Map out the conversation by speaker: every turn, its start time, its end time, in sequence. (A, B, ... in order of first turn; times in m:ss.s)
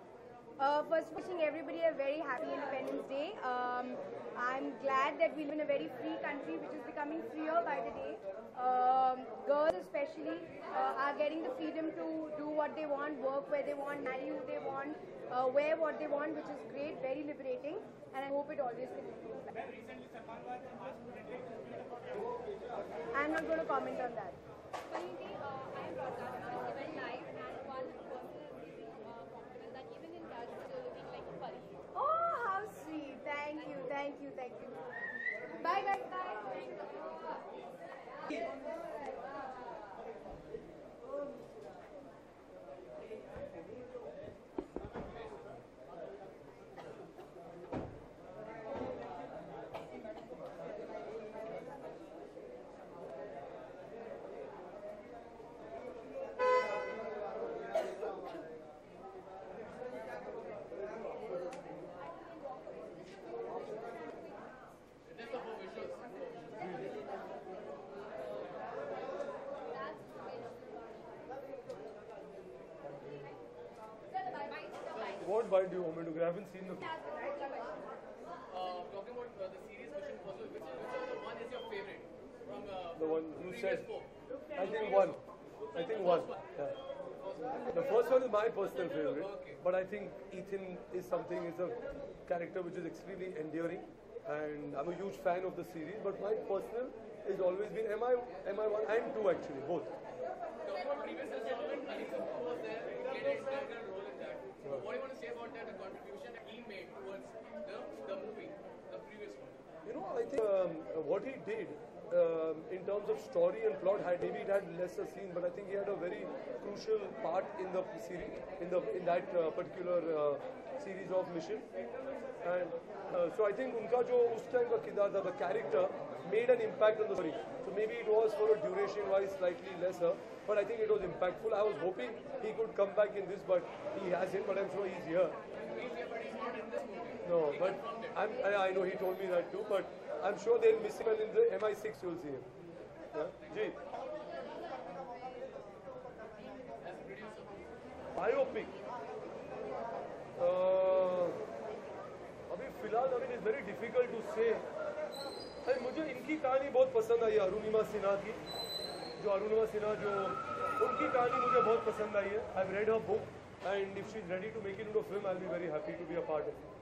0:00.6-0:19.5 A
0:23.1-0:24.4 A
0:24.9-0:31.8 B
0:31.9-0:34.8 A
0:35.5-0:36.7 A
0:36.9-0:37.4 B
1:02.1-1:04.3 B
1:05.0-1:06.9 C
1:09.7-1:11.2 B
1:14.2-1:15.2 B
1:14.9-1:15.2 C
1:15.2-1:16.9 D
1:16.8-1:17.8 B
1:18.5-1:25.1 C
1:23.0-1:23.9 D
1:24.6-1:25.2 D
1:25.7-1:26.8 D
1:25.9-1:26.4 C
1:27.2-1:29.6 C
1:27.7-1:39.9 D
1:40.6-1:49.6 C
1:49.8-2:01.7 D
2:02.4-2:15.4 D
2:15.5-2:18.3 C
2:17.2-2:22.5 D
2:23.1-2:23.8 D
2:23.2-2:23.8 C
2:26.8-2:27.7 C
2:28.2-2:28.7 D
2:30.4-2:31.4 D
2:32.5-2:34.7 D
2:35.6-2:38.4 D
2:39.2-2:46.6 D